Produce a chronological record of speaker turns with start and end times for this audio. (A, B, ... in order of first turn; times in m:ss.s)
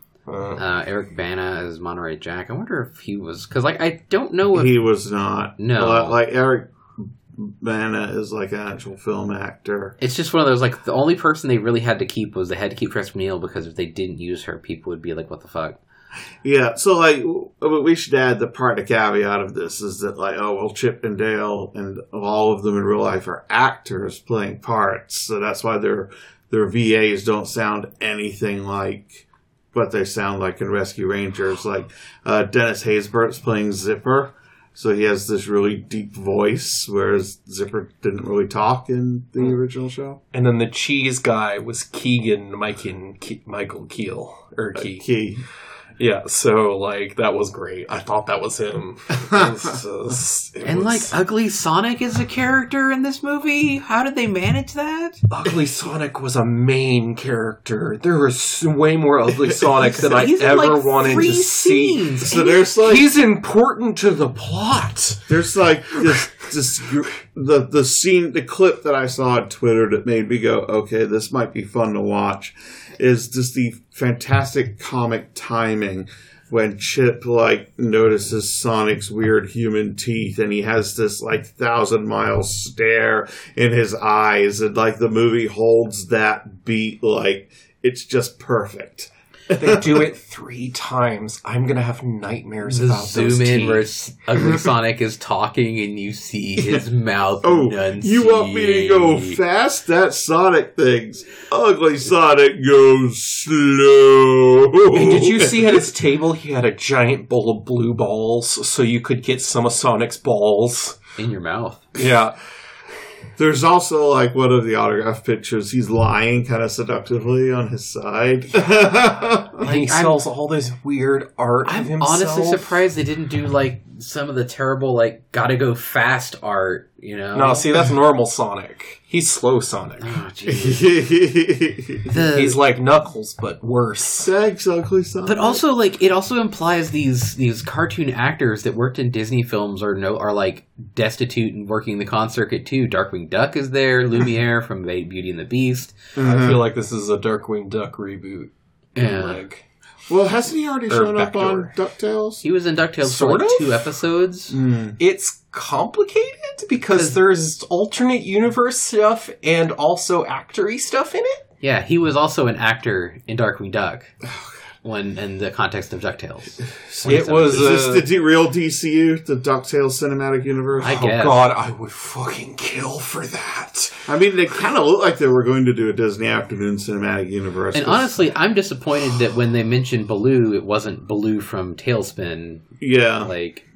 0:00.3-0:00.6 A
0:00.6-0:04.8 B
0:04.5-0:10.0 C
0:05.6-0:06.2 B
0:10.0-0:15.8 B
0:16.4-0:40.2 C
0:40.3-0:45.1 A
0:44.8-0:45.4 C
0:46.0-0:51.1 A
0:50.6-0:55.2 B
0:55.3-1:05.3 A
1:00.0-1:02.6 B
1:02.2-1:03.1 C
1:05.3-1:30.0 C
1:05.9-1:06.3 A
1:29.5-1:33.9 A
1:32.6-1:39.4 B
1:34.4-1:34.6 C
1:36.6-1:36.8 C
1:37.4-1:45.8 C
1:44.9-1:51.0 A
1:51.2-1:51.9 B
1:51.9-1:52.4 A
1:53.4-1:59.6 C
1:59.6-2:02.8 A
1:59.6-2:00.2 B
2:01.6-2:07.7 B
2:07.3-2:10.2 A
2:10.0-2:10.9 B
2:10.4-2:12.2 C
2:12.1-2:12.6 B
2:12.3-2:14.3 A
2:14.2-2:15.6 C
2:15.2-2:26.0 B
2:26.2-2:26.6 C
2:26.2-2:29.6 A
2:29.0-2:29.4 B
2:30.1-2:32.4 C
2:30.9-2:31.7 A
2:32.4-2:34.6 B
2:33.0-2:33.9 A
2:34.5-2:35.0 C
2:35.0-2:41.4 A
2:41.6-2:44.1 B
2:44.8-2:47.7 B
2:46.8-2:51.0 C
2:47.0-2:48.1 A
2:50.8-2:54.0 A
2:50.8-2:51.4 B
2:54.0-2:58.2 C
2:57.7-3:03.6 B
3:02.8-3:03.3 C